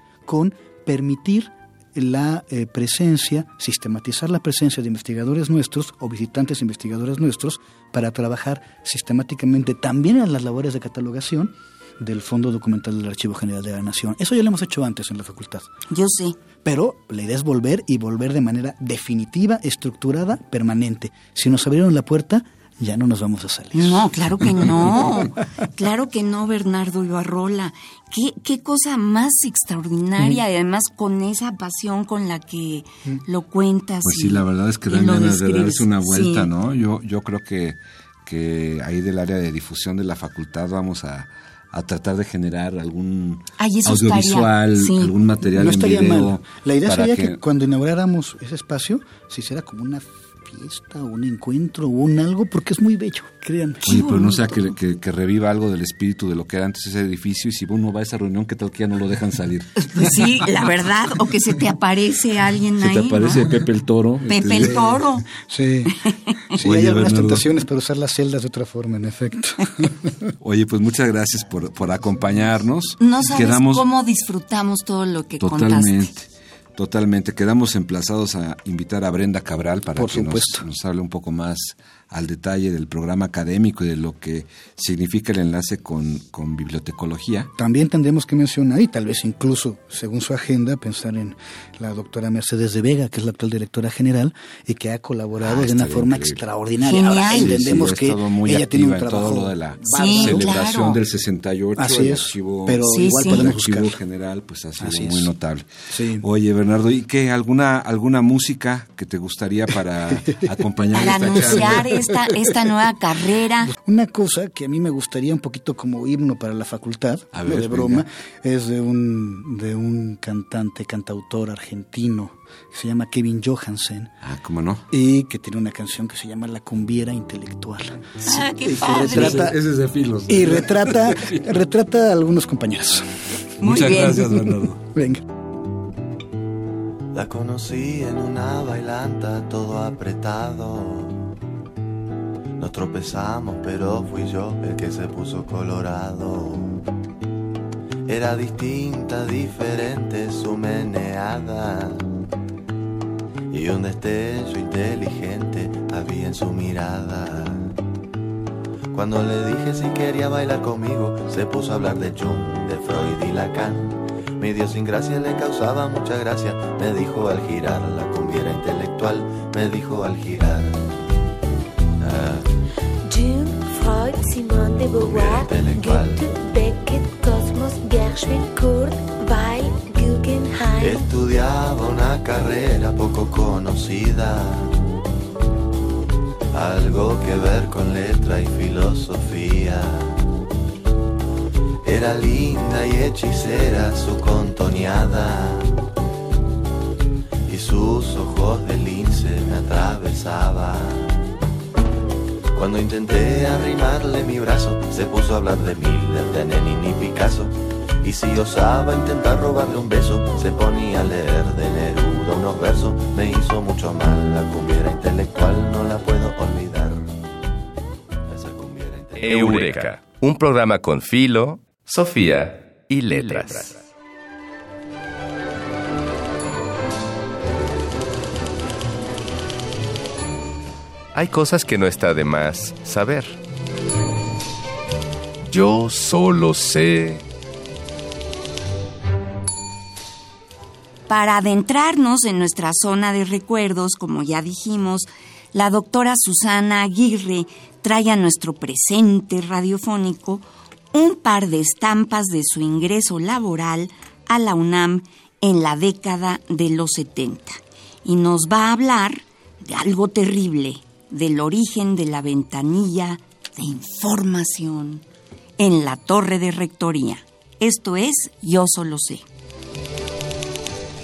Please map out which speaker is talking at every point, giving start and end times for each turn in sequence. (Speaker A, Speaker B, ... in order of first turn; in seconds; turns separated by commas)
Speaker A: 0.2-15.7, Speaker B: 15.9-16.4, Speaker A: 16.6-25.3, Speaker B: 23.7-36.5, Speaker C: 34.0-47.4, Speaker B: 43.6-45.1, Speaker A: 45.4-54.0, Speaker C: 53.9-60.3, Speaker B: 53.9-54.7, Speaker B: 59.8-63.5, Speaker C: 62.8-64.8, Speaker B: 64.3-65.3, Speaker A: 64.5-70.3, Speaker B: 66.0-66.3, Speaker C: 66.6-67.5, Speaker C: 70.4-73.8, Speaker B: 73.0-76.1, Speaker C: 75.4-87.5, Speaker A: 80.0-80.6, Speaker A: 87.6-100.8, Speaker C: 95.4-96.4, Speaker B: 96.8-97.7, Speaker C: 97.2-105.7, Speaker B: 99.9-101.0, Speaker A: 101.8-104.0, Speaker B: 102.9-103.5, Speaker A: 104.8-105.3, Speaker A: 105.9-106.2, Speaker C: 106.2-112.2, Speaker A: 110.1-110.4, Speaker B: 110.9-113.7, Speaker A: 111.0-112.0, Speaker A: 113.6-124.1, Speaker C: 117.3-118.0, Speaker C: 124.2-124.8, Speaker A: 124.9-129.6, Speaker B: 128.2-129.5, Speaker C: 128.7-131.5, Speaker A: 130.3-133.1, Speaker B: 133.6-134.4, Speaker C: 133.6-134.8, Speaker A: 133.9-135.2, Speaker D: 137.1-141.3, Speaker D: 142.6-146.8, Speaker D: 148.1-152.2, Speaker D: 153.5-157.8, Speaker D: 158.9-170.8, Speaker D: 172.0-172.5, Speaker E: 173.1-181.1, Speaker D: 174.9-176.2, Speaker D: 180.8-184.8, Speaker D: 186.5-190.2, Speaker D: 191.8-195.8, Speaker D: 197.5-201.2, Speaker D: 202.5-217.2, Speaker D: 218.3-219.9, Speaker F: 219.2-223.8, Speaker F: 231.1-233.4, Speaker F: 235.4-237.2, Speaker B: 241.1-265.0, Speaker B: 265.6-269.2